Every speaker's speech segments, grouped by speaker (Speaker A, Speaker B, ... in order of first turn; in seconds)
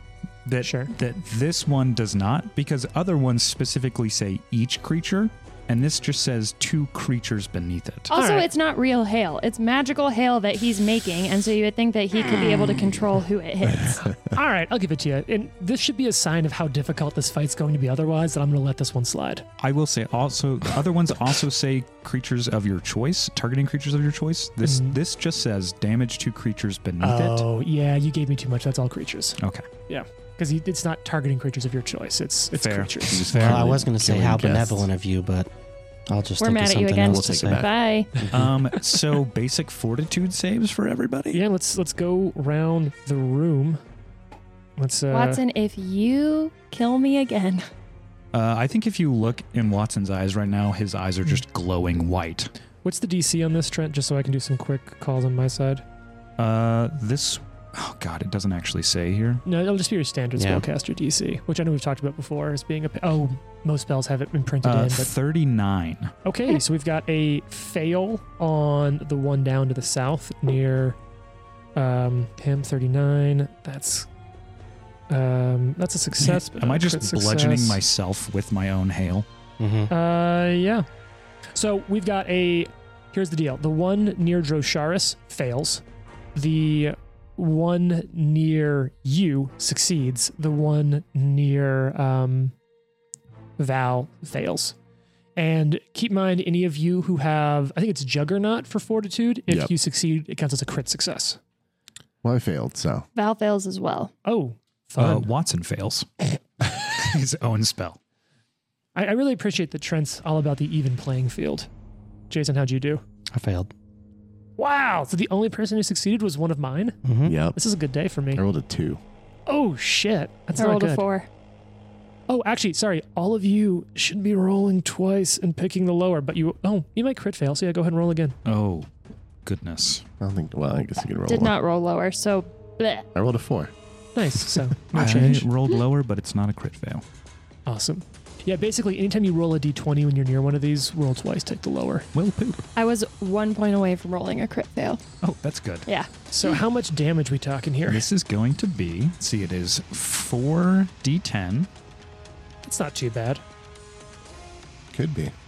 Speaker A: 0.5-8.1, 19.6-27.4, 29.4-29.7, 32.5-33.6, 38.3-41.4, 48.3-52.5, 56.4-59.4, 64.6-66.1, 76.3-79.3, 105.0-108.0, 128.4-128.9, 129.4-130.0, 134.9-137.0, 142.1-142.7, 145.2-145.9, 147.9-151.7
Speaker B: 0.6-0.9, 8.1-8.5, 14.2-19.5, 24.6-25.0, 27.0-33.3, 41.3-43.8, 44.8-45.4, 52.8-55.8, 59.5-65.1, 66.2-71.0, 71.8-74.1, 75.1-77.8, 79.9-80.9, 81.5-85.8, 86.3-92.5, 93.6-94.8, 95.4-101.4, 104.2-105.3, 109.0-111.7, 112.3-113.0, 114.6-117.0, 117.5-118.4, 119.5-121.0, 122.3-128.4, 134.2-135.5, 137.7-142.1, 146.3-148.1, 152.7-153.4
Speaker C: 8.1-14.1, 36.4-38.1, 45.1-47.6, 103.2-104.1, 120.6-121.3, 131.3-133.1, 142.8-145.0
Speaker D: 33.1-34.9, 37.0-38.3, 102.2-103.0, 117.3-117.6, 118.3-119.0, 130.2-131.6, 133.2-133.7, 154.9-155.3
Speaker E: 33.3-35.5, 36.1-37.7, 60.4-60.7, 79.6-79.9, 113.3-113.7, 117.0-117.4